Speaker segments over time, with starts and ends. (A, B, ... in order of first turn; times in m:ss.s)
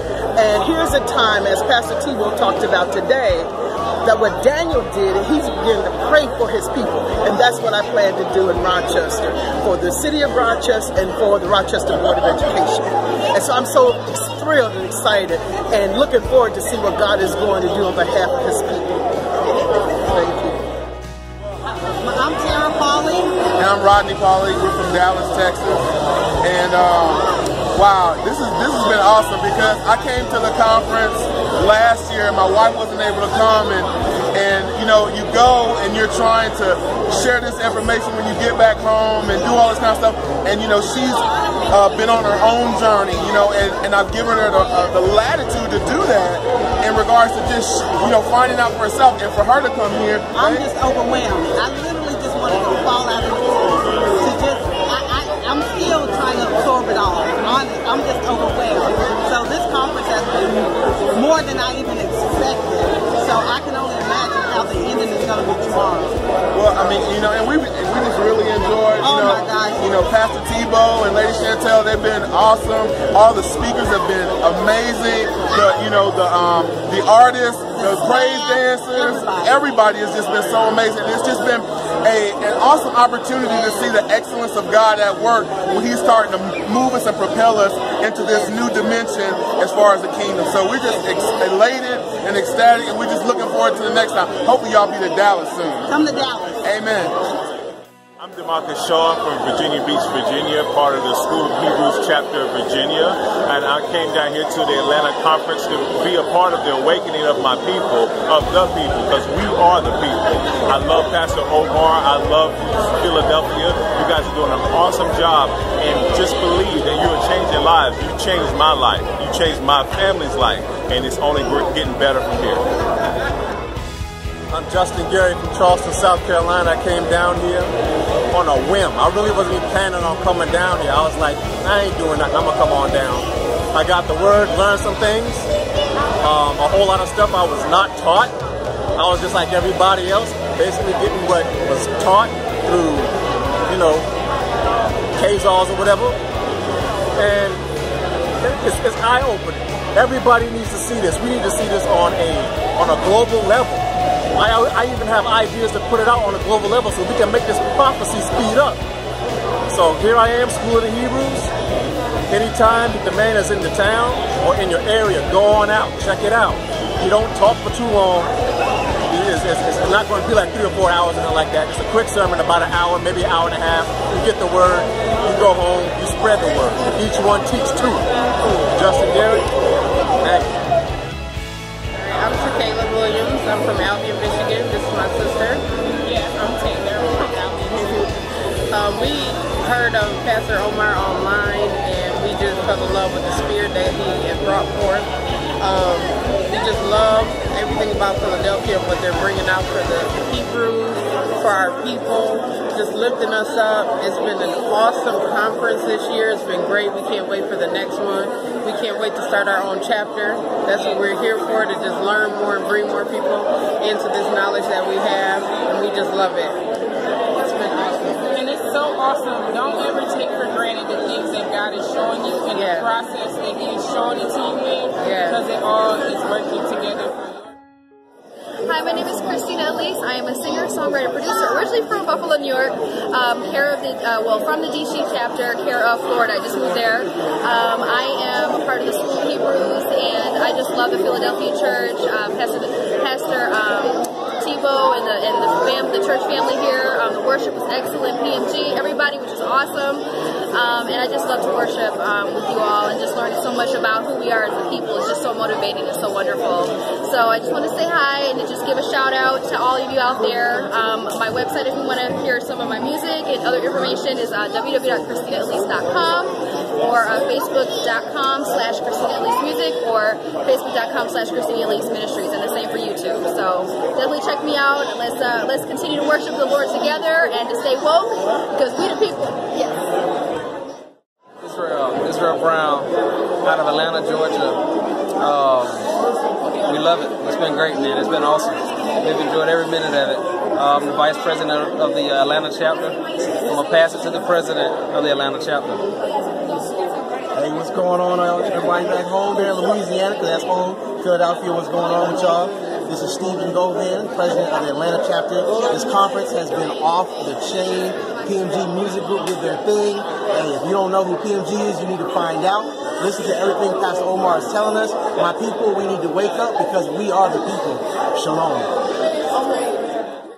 0:00.4-0:03.5 A
0:04.0-0:19.1 A
0:20.0-0:20.6 A
0:22.0-0:23.4 B
0:23.6-0:25.8 C
0:26.4-0:50.7 C
0:50.3-1:06.2 B
1:06.6-1:37.1 C
1:08.9-1:09.8 B
1:17.7-1:19.6 B
1:35.9-1:36.6 B
1:38.2-2:02.6 D
2:04.5-2:07.7 E
2:08.3-2:15.5 E
2:16.2-2:18.3 E
2:19.0-2:23.1 E
2:23.7-2:24.1 E
2:25.2-2:26.2 E
2:27.2-2:27.6 E
2:28.4-2:38.8 E
2:39.7-2:41.5 E
2:42.3-2:48.3 E
2:49.1-2:58.1 E
2:58.7-2:59.5 E
3:00.2-3:00.5 E
3:01.9-3:36.7 F
3:06.1-3:06.4 G
3:37.4-3:38.2 F
3:37.8-3:47.5 G
3:42.6-3:42.9 F
3:45.0-3:45.4 F
3:48.6-4:39.8 H
4:41.4-4:42.9 I
4:43.4-4:44.7 I
4:45.2-4:45.9 I
4:46.7-4:55.8 I
4:57.4-5:18.7 J